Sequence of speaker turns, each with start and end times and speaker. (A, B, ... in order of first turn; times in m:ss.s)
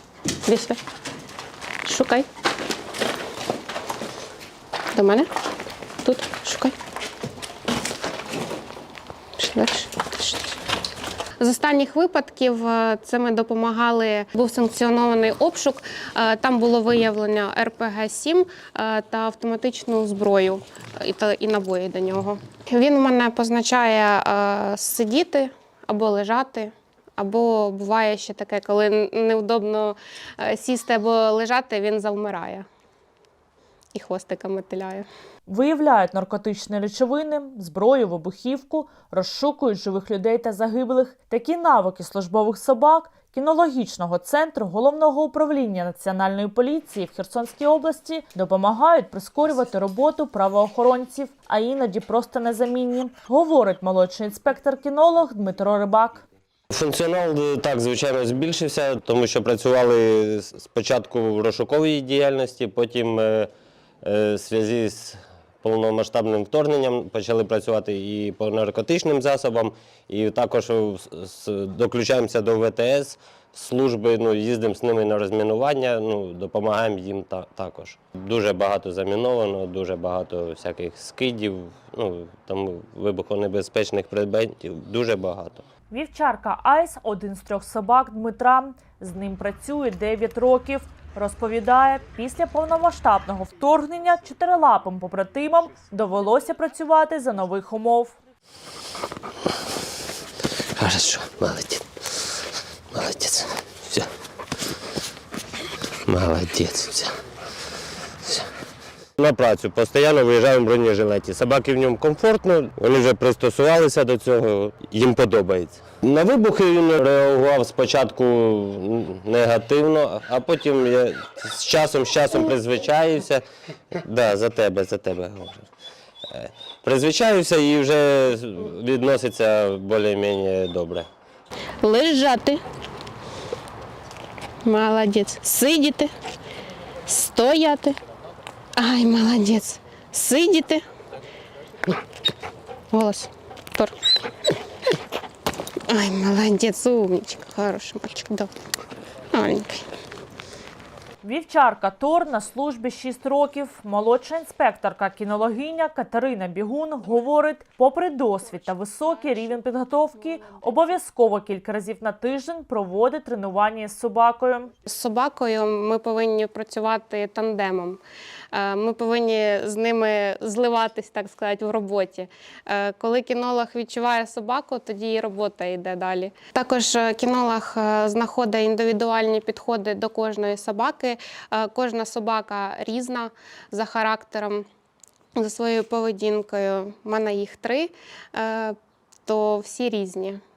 0:00.4-0:00.8 A
0:01.8-0:02.3 A
0:04.9-0:05.3 A
0:06.0-0:06.8 A
0:09.4-0:10.5 A
0:11.4-0:32.7 A
0:33.9-0:35.1 A
0:35.5-0:56.2 B
0:56.7-1:03.5 C
1:04.0-1:25.6 C
1:25.9-1:38.1 B
1:40.8-1:41.9 C
1:42.9-1:44.1 C
1:46.1-1:47.2 C
1:49.2-2:05.7 C
2:06.3-2:11.1 C
2:11.8-2:12.6 A
2:14.6-2:16.1 A
2:17.1-2:18.0 A
2:18.8-2:20.8 A
2:22.9-2:24.0 A
2:25.9-2:28.5 A
2:29.3-2:29.9 A
2:31.2-2:44.7 B
2:44.9-2:48.0 A
2:48.5-3:04.7 A
3:05.4-3:10.4 A